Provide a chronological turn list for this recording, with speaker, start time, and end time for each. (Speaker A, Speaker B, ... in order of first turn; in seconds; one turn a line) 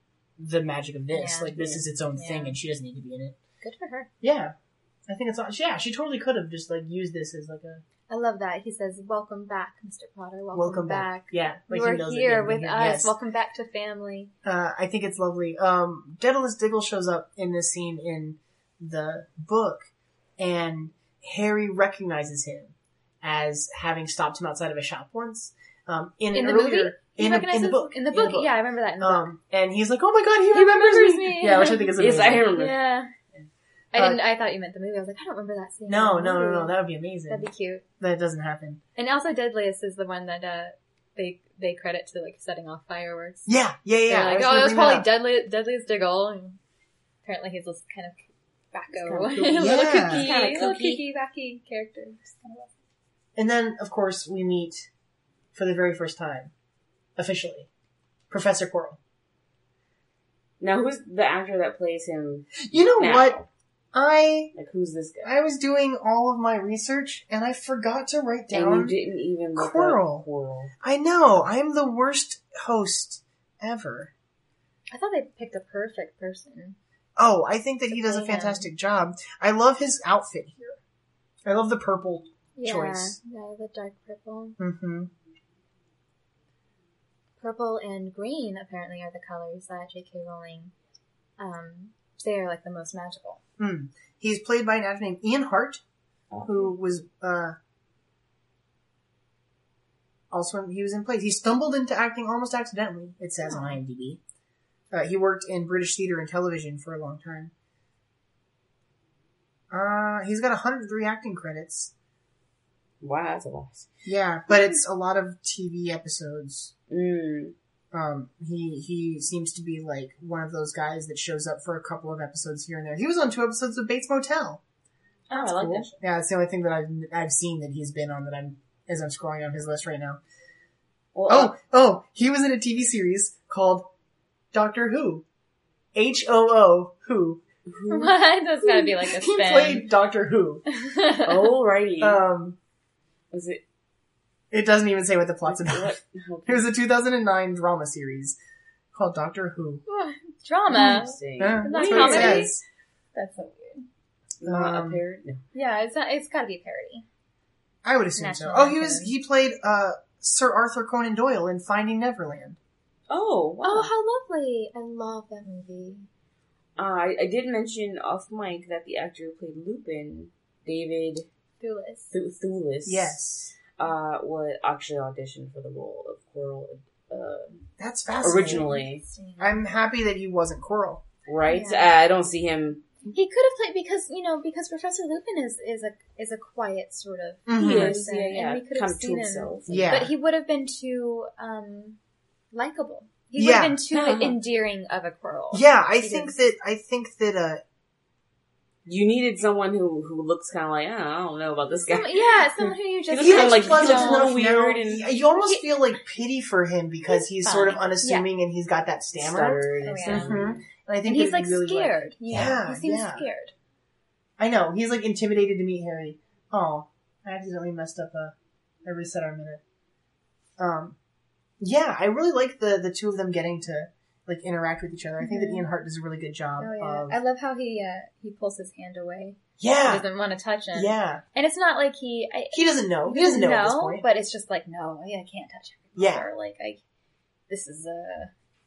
Speaker A: 0.4-3.4
Speaker B: 1.1-1.6
Speaker C: 1.6-1.8
Speaker B: 2.1-2.6
Speaker B: 3.6-4.1
Speaker A: 4.2-4.5
Speaker A: 5.1-7.8
Speaker B: 8.1-14.3
Speaker A: 10.5-13.1
Speaker A: 14.4-19.9
Speaker A: 20.4-32.5
Speaker B: 26.3-29.3
Speaker B: 30.5-33.1
Speaker C: 32.0-32.8
Speaker B: 33.9-36.7
Speaker A: 34.0-34.2
Speaker A: 35.9-37.5
Speaker B: 37.3-37.8
Speaker A: 38.0-38.8
Speaker B: 39.0-43.5
Speaker A: 43.5-45.1
Speaker B: 44.1-46.6
Speaker B: 47.2-52.7
Speaker C: 48.9-51.0
Speaker A: 49.5-50.3
Speaker A: 53.4-54.9
Speaker A: 55.5-56.5
Speaker A: 57.2-57.7
Speaker A: 58.3-59.0
Speaker C: 60.6-63.5
Speaker A: 62.6-63.4
Speaker A: 63.9-64.5
Speaker C: 64.5-65.3
Speaker A: 65.2-69.0
Speaker C: 68.5-70.7
Speaker A: 69.5-70.3
Speaker A: 70.8-74.1
Speaker B: 74.9-76.8
Speaker A: 77.2-80.8
Speaker B: 77.9-78.7
Speaker A: 81.5-83.2
Speaker B: 82.6-84.6
Speaker A: 84.6-85.1
Speaker B: 87.4-90.7
Speaker B: 91.4-93.4
Speaker A: 93.6-95.8
Speaker A: 96.4-97.6
Speaker A: 100.3-104.2
Speaker B: 103.5-103.8
Speaker A: 104.9-107.5
Speaker A: 109.7-111.9
Speaker C: 113.0-113.9
Speaker A: 114.0-116.7
Speaker C: 116.9-117.5
Speaker A: 117.9-124.6
Speaker C: 125.3-126.0
Speaker A: 125.4-130.2
Speaker C: 131.1-131.5
Speaker A: 131.3-133.9
Speaker A: 134.5-135.2
Speaker A: 135.9-137.4
Speaker C: 137.7-138.2
Speaker B: 137.9-139.9
Speaker A: 139.0-140.7
Speaker B: 140.7-141.5
Speaker C: 141.2-142.2
Speaker A: 142.0-142.6
Speaker C: 143.3-143.6
Speaker A: 144.5-148.4
Speaker C: 145.5-146.7
Speaker A: 148.9-149.8
Speaker B: 149.9-152.6
Speaker C: 150.7-152.5
Speaker A: 150.7-152.6
Speaker B: 153.2-153.8
Speaker C: 154.4-155.4
Speaker A: 154.4-155.0
Speaker B: 155.5-157.1
Speaker A: 157.8-162.6
Speaker B: 158.2-159.1
Speaker C: 163.1-163.9
Speaker B: 163.6-166.1
Speaker C: 166.8-171.3
Speaker B: 171.6-172.1
Speaker C: 172.1-173.2
Speaker A: 172.8-173.6
Speaker C: 173.8-177.7
Speaker A: 177.8-178.7
Speaker C: 178.2-179.0
Speaker B: 178.2-179.7
Speaker A: 179.4-181.0
Speaker C: 181.3-182.8
Speaker B: 181.5-181.9
Speaker B: 183.1-192.0
Speaker A: 187.5-188.0
Speaker C: 187.6-190.0
Speaker A: 189.7-190.1
Speaker B: 192.5-196.3
Speaker A: 193.4-193.8
Speaker C: 193.9-194.4
Speaker A: 195.5-197.6
Speaker C: 198.8-205.1
Speaker B: 201.9-204.4
Speaker A: 203.2-213.3
Speaker B: 205.4-205.8
Speaker B: 207.1-208.3
Speaker C: 209.2-210.6
Speaker B: 209.8-210.5
Speaker B: 211.1-213.5
Speaker A: 214.4-219.6
Speaker A: 220.6-221.0
Speaker A: 221.6-227.2
Speaker B: 225.2-225.7
Speaker B: 226.6-236.8
Speaker A: 229.6-230.1
Speaker A: 230.7-231.2
Speaker A: 232.5-234.1
Speaker A: 236.0-236.3
Speaker B: 237.5-238.3